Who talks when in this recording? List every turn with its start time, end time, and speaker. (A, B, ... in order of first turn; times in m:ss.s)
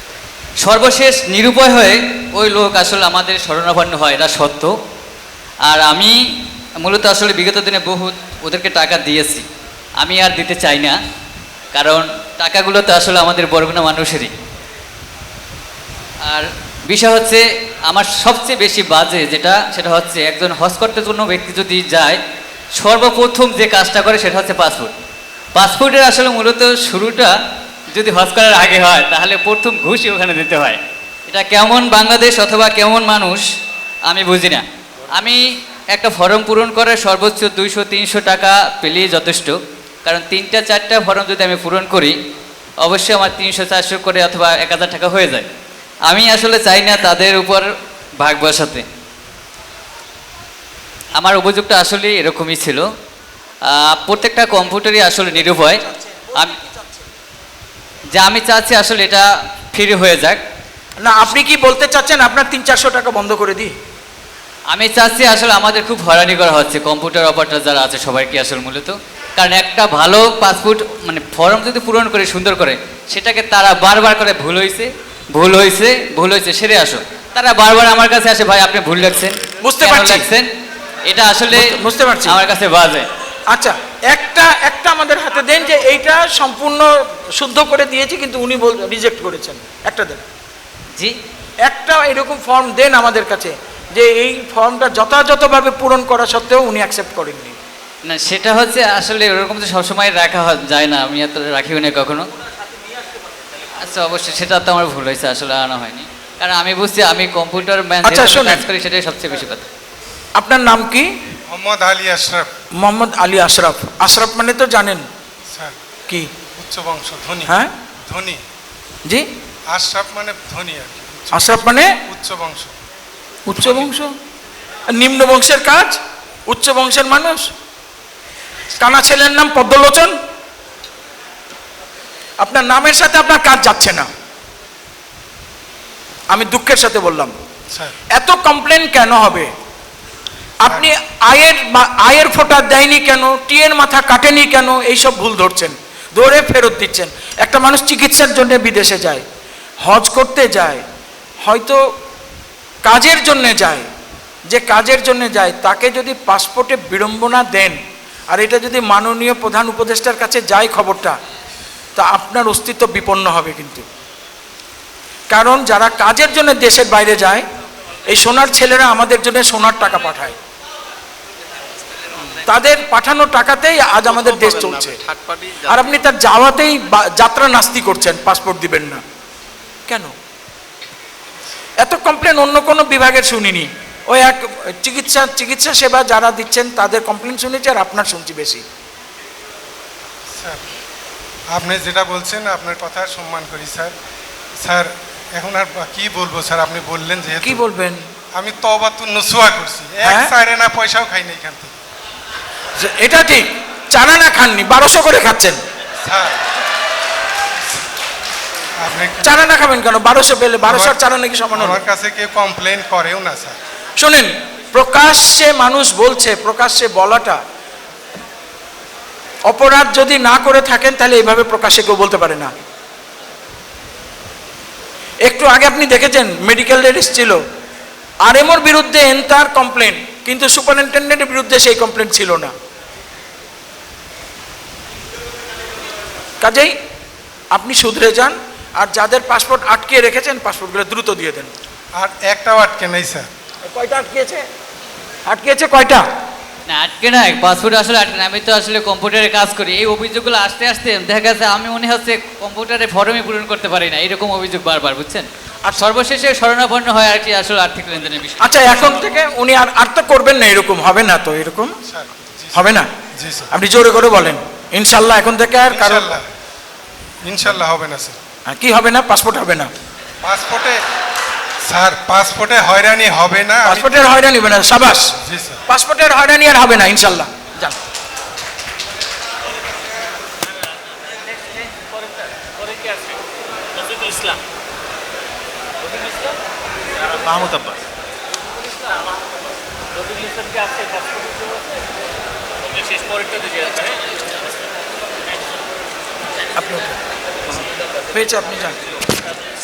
0:00.6-0:04.7 A
0:05.7-0:06.2 A
0:06.8-0:09.4 A
0:10.0-0:11.0 A
0:11.7-0:14.3 A
0:16.2-0:22.2 A
0:22.8-0:24.9 A
0:25.6-0:27.4 A
0:27.9-0:33.4 A
0:34.1-0:34.6 A
0:35.1-0:35.4 A
0:35.9-0:42.2 A
0:42.8-0:45.5 A
0:46.1-0:48.8 A
0:51.1-0:52.9 A
0:53.7-0:55.8 A
0:55.8-0:57.0 B
0:58.1-1:00.4 A
1:01.0-1:03.8 B
1:04.7-1:20.5 A
1:19.6-1:20.2 B
1:21.1-1:21.7 A
1:21.5-1:22.4 B
1:22.2-1:23.1 A
1:23.5-1:30.2 B
1:31.6-1:37.6 B
1:38.0-1:42.3 A
1:43.8-1:49.6 A
1:48.0-1:48.6 B
1:50.4-1:51.2 B
1:51.5-1:52.5 C
1:52.8-1:55.1 B
1:56.6-1:57.5 C
1:58.1-1:58.4 C
1:59.7-2:02.7 C
2:01.3-2:01.9 B
2:03.5-2:04.1 B
2:03.5-2:03.9 C
2:04.9-2:07.5 B
2:08.8-2:10.2 B
2:12.4-2:14.1 B
2:16.3-2:17.3 B
2:18.1-2:19.5 B
2:20.6-2:29.2 B
2:29.8-2:30.8 B
2:31.4-2:31.8 B
2:32.8-2:33.9 B
2:34.5-2:41.2 B
2:42.0-2:43.9 B
2:45.3-2:47.5 B
2:48.1-2:50.4 B
2:52.4-2:55.0 B
2:54.1-2:55.7 D
2:55.6-2:59.0 B
2:59.9-3:00.1 B
3:01.8-3:08.6 B
3:11.5-3:13.9 C
3:14.6-3:17.6 C
3:17.4-3:18.0 B
3:18.4-3:21.7 C
3:20.0-3:20.3 B
3:22.8-3:25.6 B
3:26.1-3:26.4 C
3:28.8-3:29.4 C
3:29.2-3:31.8 B
3:30.6-3:31.0 C
3:31.5-3:33.6 C
3:34.0-3:37.4 B
3:39.5-3:42.5 B
3:45.2-3:47.4 B
3:48.2-3:52.5 B
3:56.4-3:56.7 B
3:57.5-4:01.5 B
4:02.0-4:03.3 C
4:03.6-4:04.5 B
4:05.2-4:06.1 B
4:06.7-4:19.0 A
4:15.6-4:15.9 B
4:18.4-4:21.7 B
4:21.9-4:23.5 C
4:22.5-4:22.9 B
4:23.5-4:26.1 B
4:25.7-4:26.2 C
4:27.2-4:28.2 C
4:28.5-4:29.7 B
4:30.2-4:30.8 C
4:31.7-4:34.0 C
4:33.6-4:35.1 B
4:35.2-4:35.6 C
4:35.7-4:37.8 B
4:41.0-4:43.2 E
4:43.8-4:44.4 E
4:45.9-4:46.3 E
4:47.1-4:47.8 D
4:50.0-4:51.6 E
4:52.6-4:54.0 E
4:56.6-4:57.0 B
4:58.1-4:58.8 B